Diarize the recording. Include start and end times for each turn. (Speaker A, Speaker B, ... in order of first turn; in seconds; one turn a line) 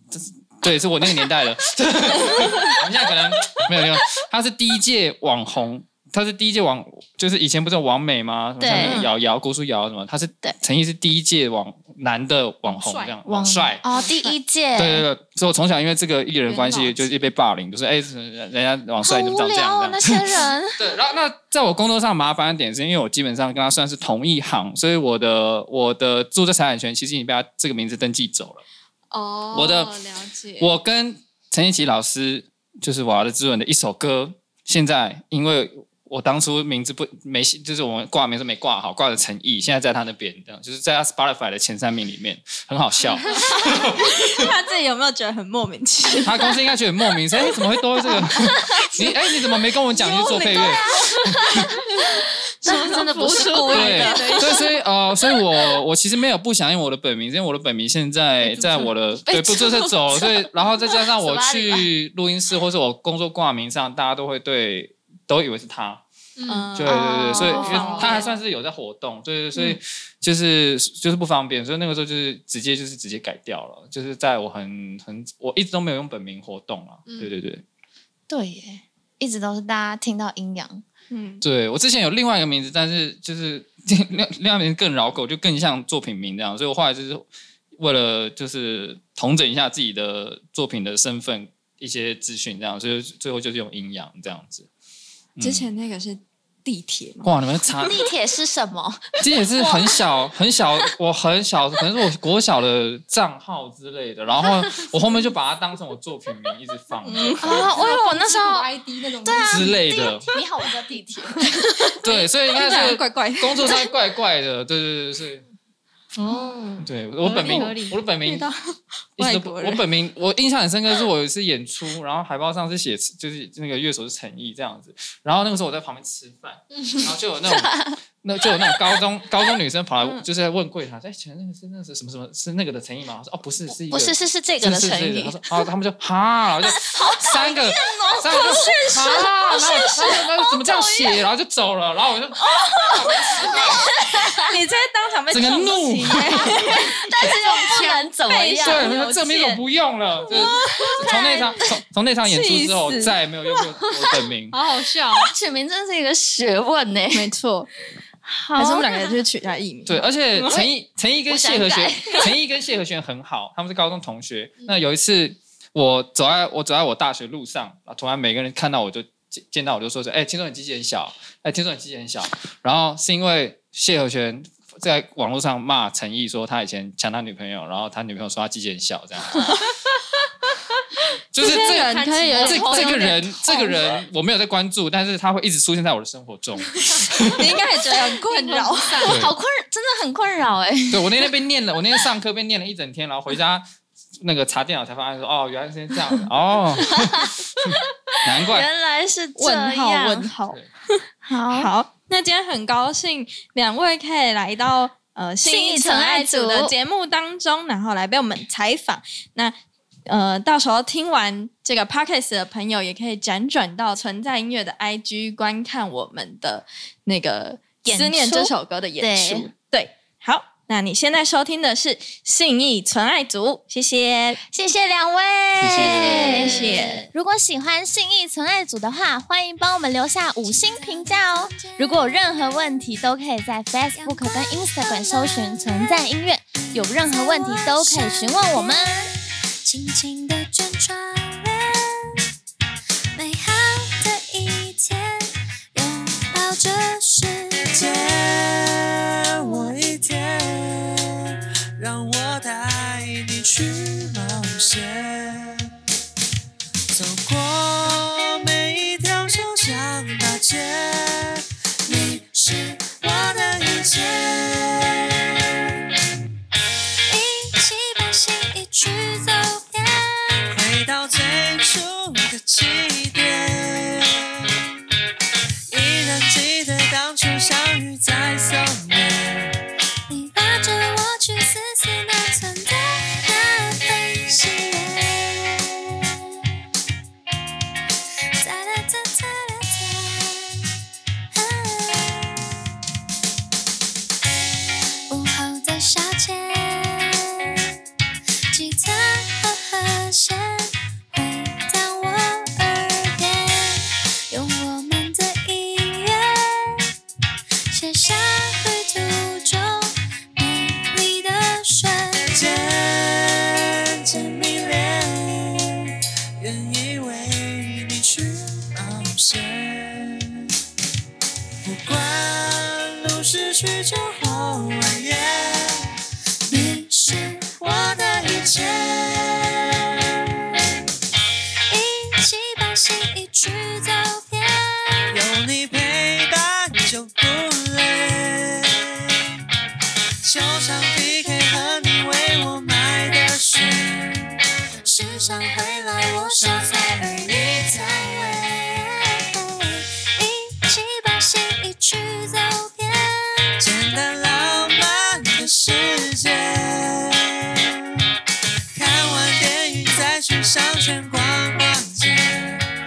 Speaker A: 0.1-13.8
Speaker B: 2.2-2.7
Speaker C: 8.6-9.1
Speaker B: 8.7-9.1
Speaker D: 12.6-13.1
Speaker C: 13.2-15.1
Speaker B: 13.9-14.3
Speaker A: 14.7-28.6
Speaker C: 19.0-20.9
Speaker B: 29.1-30.7
Speaker A: 29.5-30.0
Speaker A: 30.6-44.1
Speaker B: 43.4-46.5
Speaker A: 46.2-51.6
Speaker B: 47.5-49.2
Speaker B: 49.9-50.9
Speaker C: 50.3-50.8
Speaker C: 51.3-51.7
Speaker B: 52.0-54.7
Speaker C: 52.6-54.6
Speaker A: 53.7-66.0
Speaker D: 58.4-58.9
Speaker C: 59.3-60.4
Speaker C: 61.0-61.9
Speaker D: 66.4-66.7
Speaker B: 66.5-68.3
Speaker A: 66.7-77.6
Speaker D: 67.3-68.3
Speaker D: 77.0-77.3
Speaker C: 78.3-80.8
Speaker B: 81.1-81.4
Speaker A: 81.4-87.2
Speaker A: 87.8-94.7
Speaker A: 95.3-95.7
Speaker B: 95.4-97.3
Speaker A: 97.2-98.0
Speaker C: 97.8-100.0
Speaker A: 99.2-107.7
Speaker B: 107.0-107.7
Speaker C: 107.4-108.7
Speaker D: 107.7-109.8
Speaker C: 109.2-111.9
Speaker A: 109.4-110.3
Speaker A: 112.0-115.4
Speaker B: 112.5-113.8
Speaker D: 116.1-118.0
Speaker A: 116.8-118.5
Speaker B: 117.2-119.8
Speaker A: 119.2-143.9
Speaker C: 127.5-127.9
Speaker C: 133.9-135.6
Speaker C: 136.7-141.2
Speaker B: 138.3-139.3
Speaker B: 139.9-140.2
Speaker C: 142.5-144.5
Speaker B: 144.4-149.6
Speaker A: 145.3-146.9
Speaker C: 146.5-148.9
Speaker A: 148.6-154.6
Speaker B: 150.2-151.7
Speaker B: 152.2-153.8
Speaker D: 154.5-155.3
Speaker C: 155.2-157.3
Speaker B: 157.1-157.7
Speaker C: 158.2-159.2
Speaker B: 158.6-160.7
Speaker A: 159.8-179.6
Speaker C: 161.3-162.3
Speaker A: 181.3-187.6
Speaker B: 181.4-184.0
Speaker D: 181.8-183.1
Speaker B: 187.3-189.2
Speaker D: 188.2-189.2
Speaker A: 189.0-189.3
Speaker C: 189.0-191.2
Speaker A: 190.9-193.6
Speaker A: 194.2-198.7
Speaker C: 196.9-197.3
Speaker C: 198.3-200.3
Speaker B: 199.4-224.4
Speaker C: 201.2-201.7
Speaker C: 205.4-206.7
Speaker C: 217.8-219.5
Speaker C: 224.5-239.1
Speaker A: 225.6-226.3
Speaker B: 225.6-227.1
Speaker E: 226.0-227.0
Speaker E: 230.4-232.4
Speaker E: 233.9-236.1
Speaker E: 236.7-242.2
Speaker E: 243.1-247.9
Speaker F: 247.7-251.1
Speaker F: 251.8-255.7
Speaker F: 256.9-265.2
Speaker E: 267.1-270.5
Speaker F: 270.5-274.5
Speaker F: 275.7-279.6
Speaker E: 280.1-285.9
Speaker E: 288.4-290.6
Speaker E: 291.3-292.5
Speaker E: 295.1-297.4
Speaker E: 298.5-306.9
Speaker E: 307.7-312.3
Speaker F: 312.3-320.3
Speaker F: 321.6-325.8
Speaker E: 326.5-327.6
Speaker F: 327.5-329.6
Speaker E: 331.7-335.1
Speaker F: 335.1-339.1
Speaker F: 340.2-344.3
Speaker E: 344.9-354.6
Speaker F: 344.9-349.1
Speaker F: 353.6-357.6
Speaker F: 358.7-362.6